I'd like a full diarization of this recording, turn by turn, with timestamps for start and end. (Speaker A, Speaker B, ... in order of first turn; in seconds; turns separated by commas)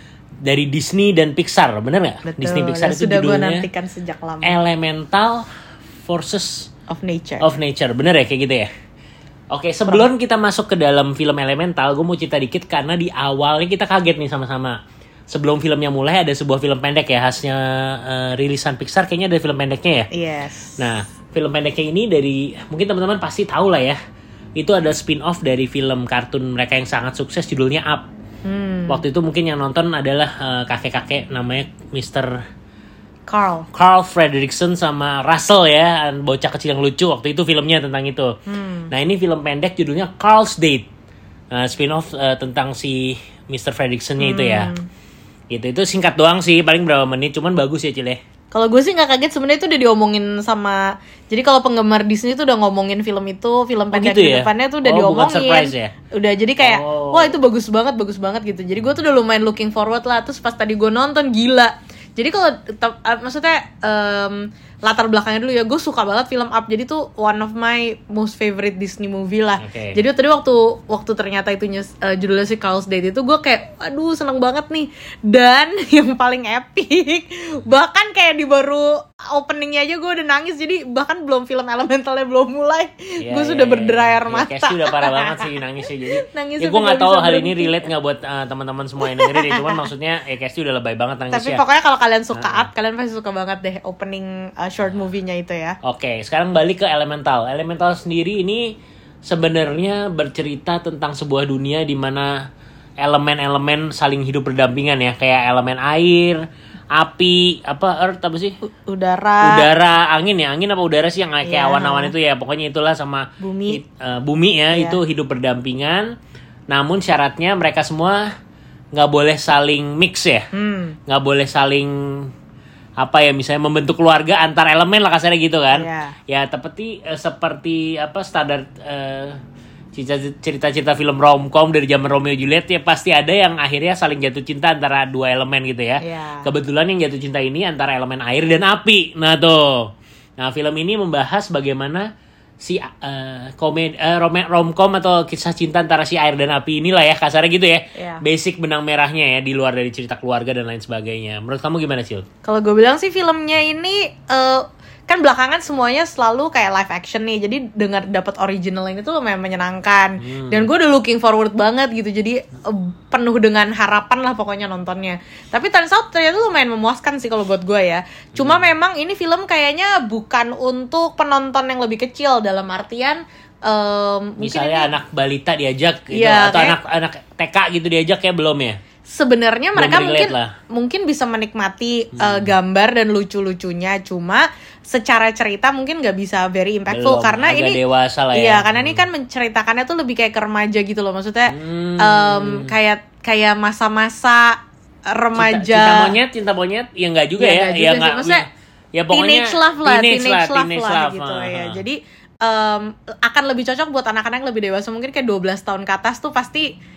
Speaker A: 0.4-3.7, Speaker B: 2.2-4.5, Speaker A: 4.4-5.5, Speaker A: 6.0-6.7, Speaker B: 6.9-7.5, Speaker A: 7.4-8.7, Speaker A: 9.5-14.8, Speaker A: 15.3-20.1, Speaker B: 20.1-20.8, Speaker A: 20.8-24.0, Speaker A: 24.6-28.1, Speaker B: 28.4-29.0, Speaker A: 28.9-32.4, Speaker B: 33.3-33.7, Speaker A: 33.7-38.3, Speaker B: 38.5-38.9, Speaker A: 38.9-40.9, Speaker A: 41.5-44.7, Speaker B: 44.2-44.9, Speaker A: 45.5-48.2, Speaker B: 48.5-85.5, Speaker A: 53.9-55.9, Speaker A: 56.6-57.4, Speaker A: 69.6-70.0, Speaker A: 83.2-91.6, Speaker B: 86.2-87.9, Speaker B: 89.0-89.8, Speaker B: 91.3-95.8, Speaker A: 92.3-92.7, Speaker A: 95.8-102.4, Speaker A: 103.0-108.5, Speaker B: 108.6-109.7, Speaker A: 109.4-116.1, Speaker B: 111.4-112.1, Speaker B: 113.4-113.8, Speaker B: 114.7-115.0, Speaker A: 116.7-118.2, Speaker A: 118.9-120.5, Speaker B: 120.5-121.0, Speaker A: 121.1-122.3, Speaker A: 123.0-129.4, Speaker B: 125.7-126.2, Speaker A: 129.9-142.1, Speaker B: 136.0-136.5, Speaker A: 142.6-152.2, Speaker B: 147.9-148.2, Speaker B: 152.4-174.9, Speaker A: 160.2-160.7, Speaker A: 168.3-168.6, Speaker A: 174.4-178.8, Speaker B: 176.1-176.8, Speaker B: 179.1-187.8, Speaker A: 179.7-180.5, Speaker A: 182.1-182.5, Speaker A: 186.9-189.0, Speaker B: 188.3-194.6, Speaker A: 191.5-192.7, Speaker B: 195.1-196.1, Speaker A: 195.3-201.8, Speaker B: 197.4-198.4, Speaker B: 199.1-206.7